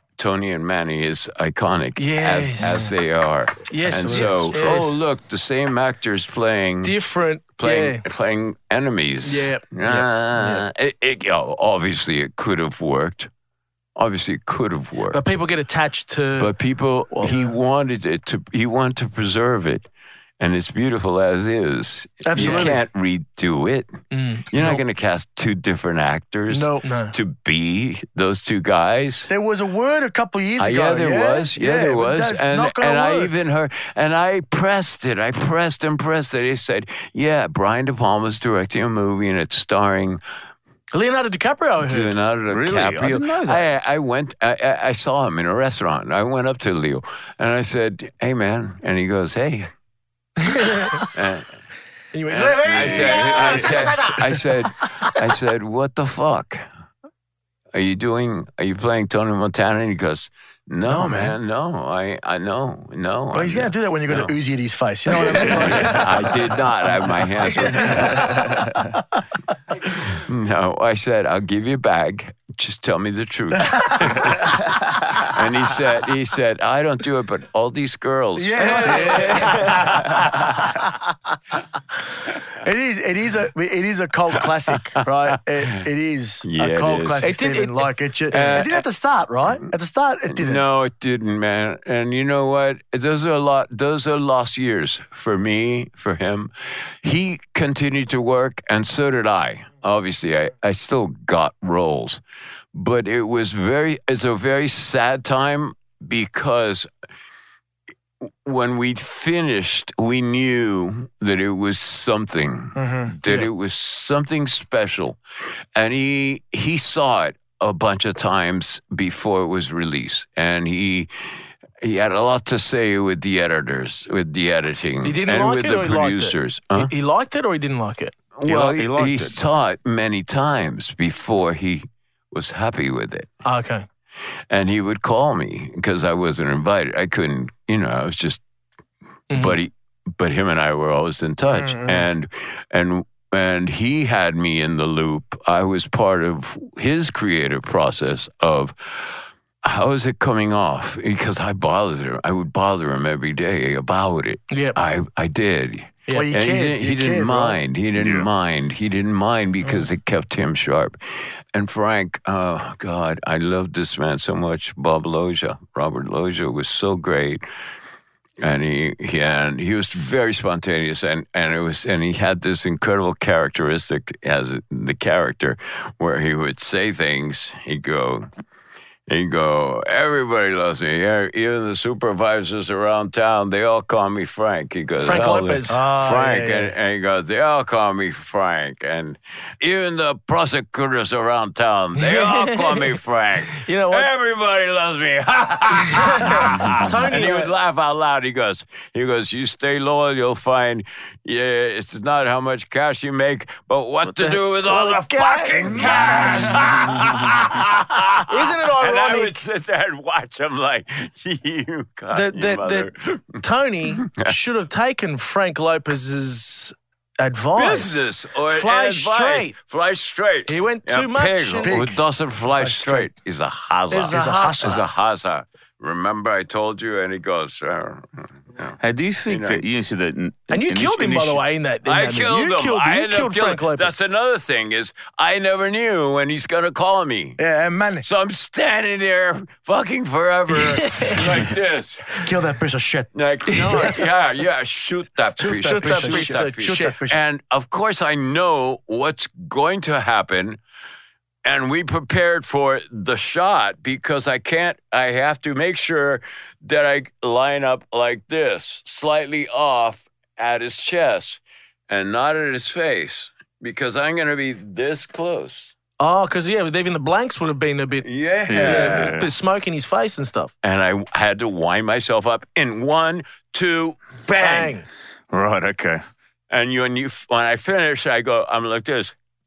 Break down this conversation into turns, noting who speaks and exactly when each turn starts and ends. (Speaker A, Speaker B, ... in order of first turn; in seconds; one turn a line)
Speaker A: 0.2-7.0
Speaker B: 2.0-2.9
Speaker B: 3.7-5.0
Speaker C: 3.9-4.4
Speaker B: 6.8-8.0
Speaker A: 7.6-13.3
Speaker B: 9.2-10.7
Speaker A: 13.9-15.2
Speaker B: 15.1-16.5
Speaker A: 16.4-19.9
Speaker B: 17.1-17.5
Speaker A: 20.4-23.9
Speaker C: 22.2-22.8
Speaker B: 22.3-22.8
Speaker B: 24.1-24.5
Speaker A: 24.5-29.3
Speaker C: 24.5-24.8
Speaker C: 26.5-26.8
Speaker B: 26.8-27.1
Speaker C: 29.3-33.3
Speaker A: 30.6-40.2
Speaker B: 40.9-42.1
Speaker A: 41.8-49.7
Speaker D: 42.5-43.6
Speaker B: 50.4-51.1
Speaker A: 51.1-51.5
Speaker B: 52.1-54.5
Speaker A: 52.3-56.6
Speaker D: 52.7-53.8
Speaker A: 57.7-64.3
Speaker C: 60.9-61.3
Speaker C: 63.3-66.4
Speaker A: 65.1-68.7
Speaker C: 67.8-68.4
Speaker A: 69.9-80.7
Speaker C: 73.8-74.3
Speaker C: 78.4-80.3
Speaker B: 78.8-79.7
Speaker C: 82.6-90.6
Speaker A: 85.3-85.8
Speaker A: 86.4-87.3
Speaker B: 87.2-88.7
Speaker A: 88.3-88.8
Speaker A: 90.3-102.2
Speaker A: 102.7-106.9
Speaker A: 108.4-115.2
Speaker C: 112.8-113.1
Speaker A: 115.7-126.9
Speaker B: 125.0-128.1
Speaker A: 128.3-133.3
Speaker D: 128.4-129.4
Speaker B: 133.4-133.9
Speaker A: 134.5-138.4
Speaker B: 139.3-139.6
Speaker A: 139.3-167.4
Speaker C: 141.5-142.0
Speaker B: 154.5-154.8
Speaker C: 156.1-157.6
Speaker D: 158.0-158.3
Speaker A: 168.4-178.3
Speaker A: 179.1-213.4
Speaker B: 185.0-185.8
Speaker C: 185.7-186.7
Speaker B: 192.0-193.0
Speaker B: 193.5-194.1
Speaker B: 195.9-197.5
Speaker B: 204.6-206.3
Speaker D: 205.6-207.1
Speaker B: 208.3-209.3
Speaker B: 212.1-212.9
Speaker B: 213.4-219.5
Speaker A: 213.9-214.4
Speaker A: 217.5-229.6
Speaker B: 220.5-221.8
Speaker C: 221.6-222.0
Speaker C: 222.5-223.1
Speaker B: 223.9-224.8
Speaker C: 224.1-224.8
Speaker D: 228.8-231.4
Speaker B: 230.5-233.9
Speaker A: 231.8-237.4
Speaker C: 237.4-238.1
Speaker A: 238.0-242.3
Speaker B: 240.6-241.2
Speaker C: 242.2-243.9
Speaker A: 243.1-250.6
Speaker B: 243.5-243.9
Speaker C: 245.4-247.2
Speaker B: 245.5-246.9
Speaker A: 251.4-265.7
Speaker B: 266.0-270.5
Speaker A: 268.0-269.2
Speaker D: 268.5-269.3
Speaker A: 270.6-274.8
Speaker B: 274.4-274.9
Speaker D: 275.3-276.0
Speaker A: 276.5-279.1